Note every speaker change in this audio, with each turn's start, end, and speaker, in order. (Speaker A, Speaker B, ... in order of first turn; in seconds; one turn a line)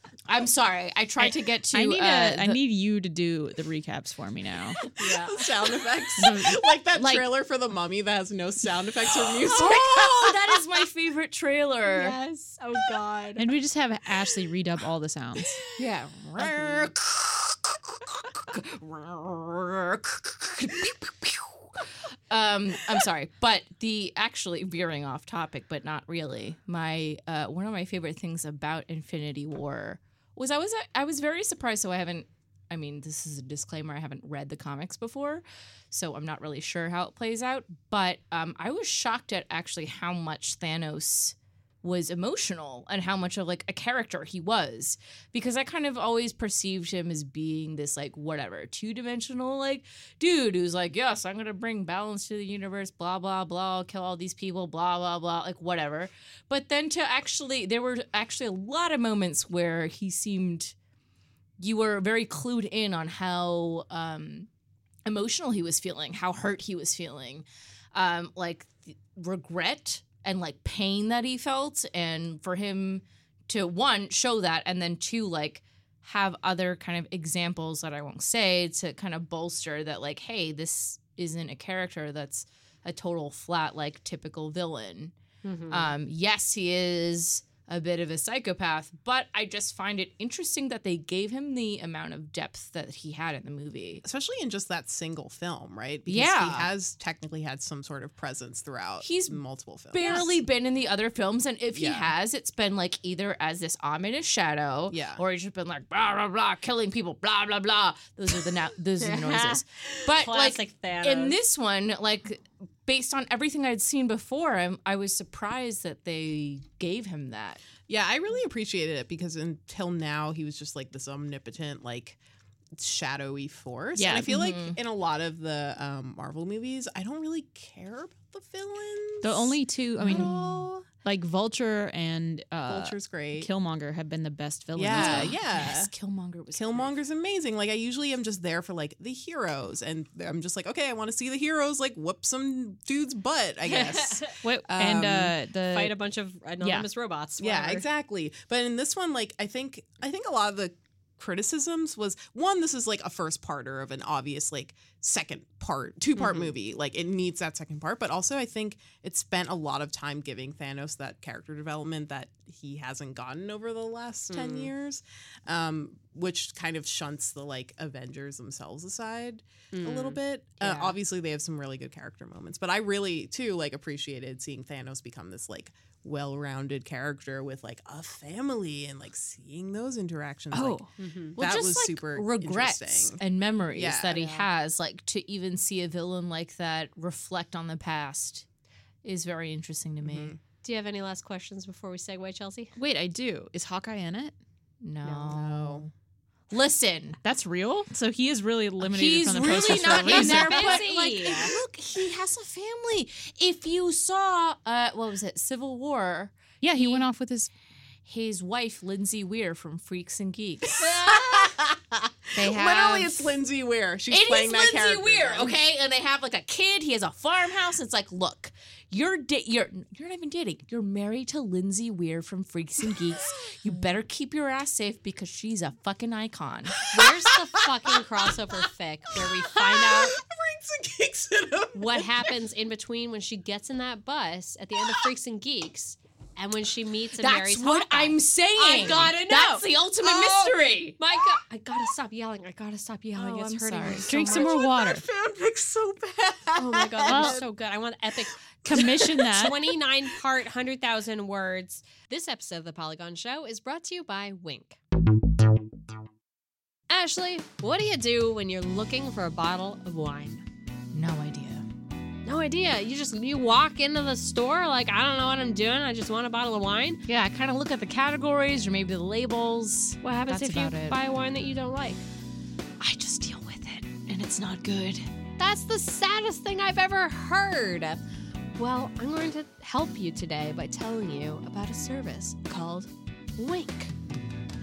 Speaker A: 0.3-2.6
Speaker B: 1.2-4.8
Speaker C: 4.9-5.5
Speaker D: 5.0-10.6
Speaker B: 6.2-6.6
Speaker A: 6.9-7.3
Speaker A: 9.4-12.2
Speaker C: 11.9-13.5
Speaker B: 13.4-15.6
Speaker A: 15.8-60.8
Speaker C: 16.4-16.8
Speaker A: 61.6-64.5
Speaker A: 65.1-85.1
Speaker C: 85.4-85.9
Speaker A: 85.7-94.0
Speaker D: 94.0-100.3
Speaker A: 96.1-96.7
Speaker A: 99.0-99.4
Speaker A: 99.9-117.6
Speaker D: 101.7-102.1
Speaker D: 104.9-105.2
Speaker C: 109.0-111.4
Speaker D: 117.9-122.2
Speaker D: 122.8-130.3
Speaker B: 124.0-124.3
Speaker A: 124.2-124.8
Speaker B: 129.2-135.4
Speaker A: 130.0-130.7
Speaker D: 132.7-133.5
Speaker D: 134.8-135.9
Speaker A: 134.8-137.0
Speaker D: 136.5-145.3
Speaker C: 143.6-144.4
Speaker B: 144.4-146.0
Speaker C: 145.7-147.9
Speaker B: 146.6-146.9
Speaker D: 147.4-180.8
Speaker C: 156.2-156.5
Speaker C: 164.3-164.7
Speaker C: 169.7-170.2
Speaker A: 170.6-170.9
Speaker B: 180.5-180.9
Speaker C: 181.0-181.4
Speaker D: 181.4-183.2
Speaker A: 181.4-188.5
Speaker D: 183.7-184.3
Speaker C: 184.1-184.5
Speaker A: 189.0-190.3
Speaker D: 190.0-190.4
Speaker C: 190.6-192.7
Speaker B: 192.8-194.3
Speaker A: 194.8-195.9
Speaker D: 195.2-195.9
Speaker A: 196.5-197.2
Speaker B: 197.2-200.9
Speaker A: 198.8-207.0
Speaker C: 199.7-201.6
Speaker B: 206.6-207.5
Speaker A: 208.1-211.5
Speaker D: 210.7-215.6
Speaker A: 212.3-213.4
Speaker A: 214.1-226.9
Speaker D: 226.8-228.0
Speaker C: 226.9-230.2
Speaker D: 229.4-232.4
Speaker C: 231.8-244.5
Speaker D: 234.8-235.1
Speaker A: 237.2-241.0
Speaker A: 243.2-244.4
Speaker B: 244.1-245.0
Speaker D: 244.2-247.5
Speaker C: 246.6-254.8
Speaker B: 247.1-247.4
Speaker B: 248.7-249.7
Speaker D: 248.7-249.4
Speaker C: 256.9-260.4
Speaker A: 260.9-261.7
Speaker C: 262.2-267.1
Speaker A: 267.1-271.0
Speaker C: 270.0-272.0
Speaker A: 272.8-275.1
Speaker C: 275.4-278.0
Speaker C: 278.6-283.9